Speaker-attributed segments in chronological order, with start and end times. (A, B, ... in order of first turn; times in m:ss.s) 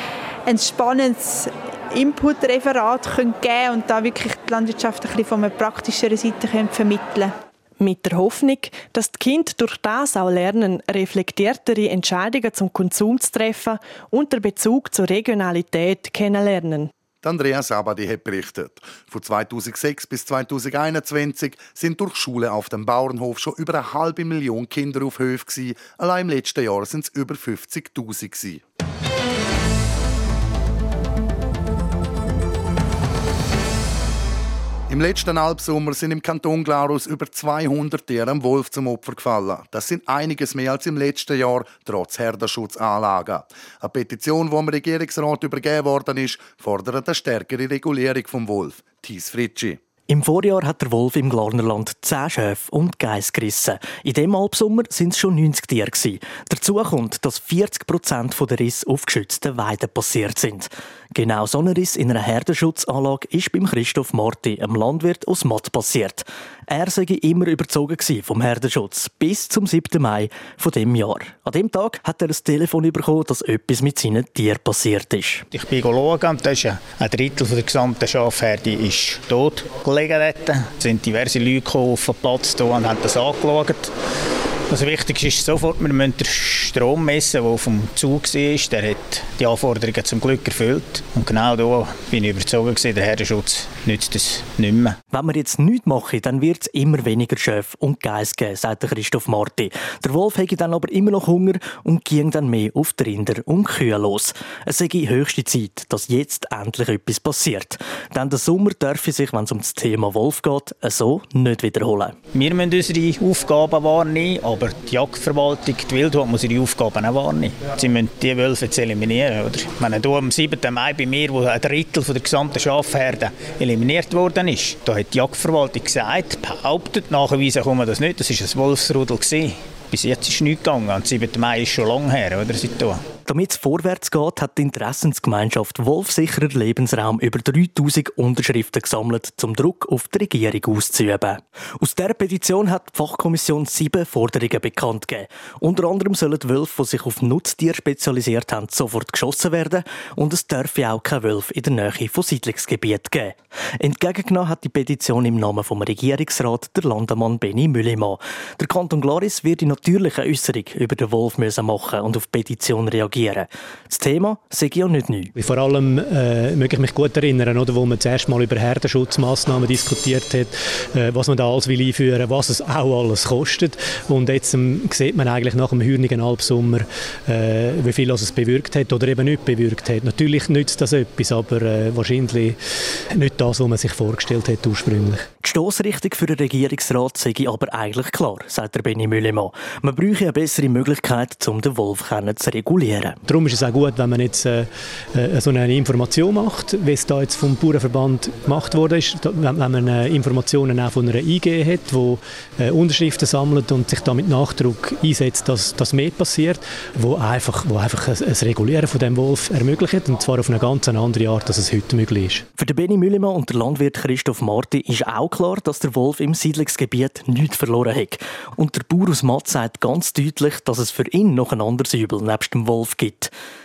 0:00.4-0:07.3 A
0:07.8-0:16.9 B
0:17.2-0:28.6 C
0:34.9-0:49.8 C
0:50.1-1:15.4 D
1:15.5-1:23.9 E
1:24.7-1:35.0 E
1:35.1-1:52.2 D
1:52.3-2:13.0 E
2:13.2-2:45.3 D
2:45.4-3:02.6 F
3:03.1-3:05.2 F
3:05.4-3:13.2 D
3:13.3-3:32.4 F
3:32.6-3:43.3 D